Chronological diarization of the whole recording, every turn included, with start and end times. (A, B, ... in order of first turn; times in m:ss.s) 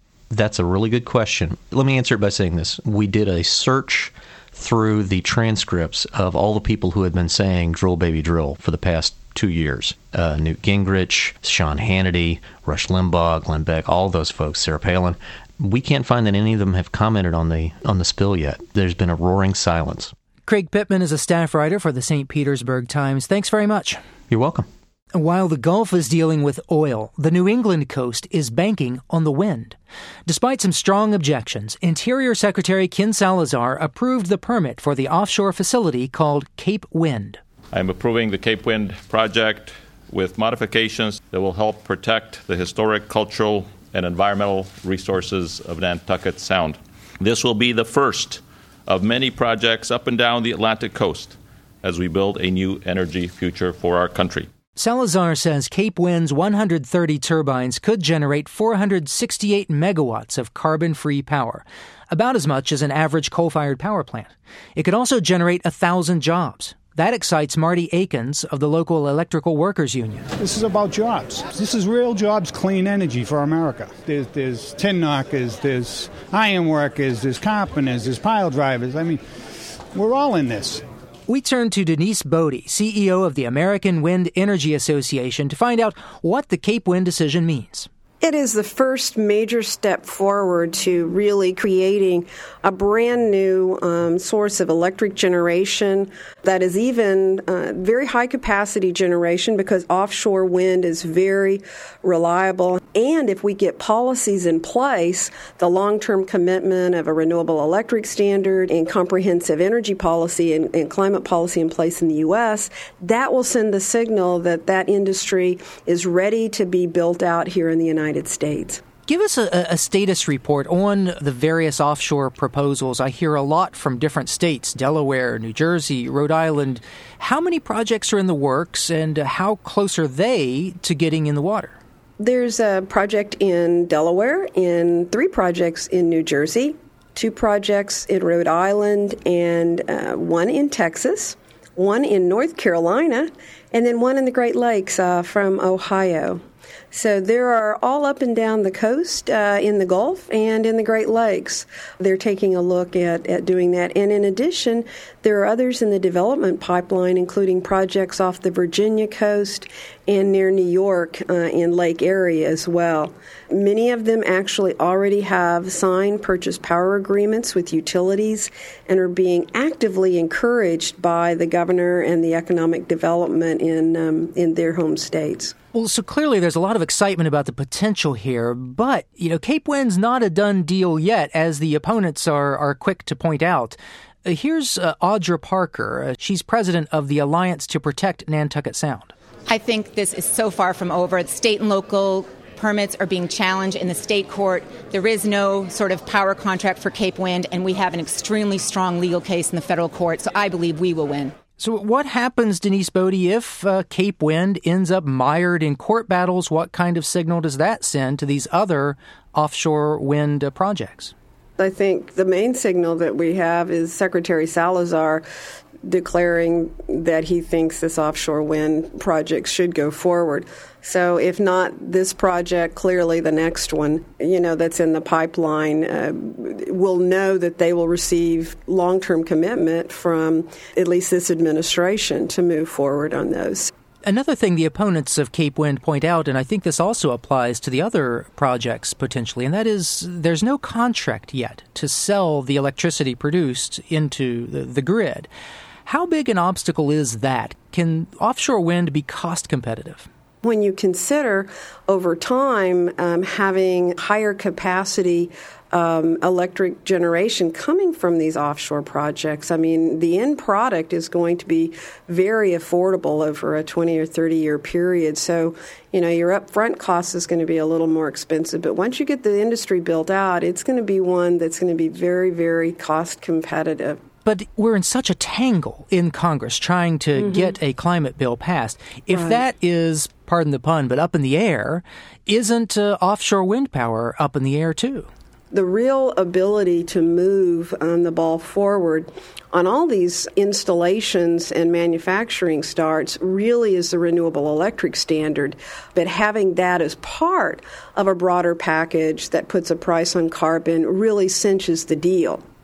0:00.3-0:20.1 A
0:20.5-0:24.0 B
0:24.3-0:24.7 A
0:25.1-0:37.4 B
0:37.7-0:54.5 C
0:54.8-1:10.3 B
1:10.4-1:19.2 D
1:19.9-1:20.8 D
1:21.3-1:27.9 B
1:28.2-1:58.8 E
1:59.1-2:11.8 B
2:12.2-2:26.4 E
2:26.9-2:55.5 E
2:55.7-3:09.1 B
3:09.4-3:21.3 F
3:21.6-3:31.1 B
3:31.6-3:35.2 E
3:35.8-3:53.7 E
3:54.0-4:05.3 B
4:05.8-4:10.1 B
4:10.4-4:34.0 E
4:34.2-4:45.1 B
4:37.2-4:37.5 E
4:39.1-4:39.4 E
4:45.5-5:02.4 E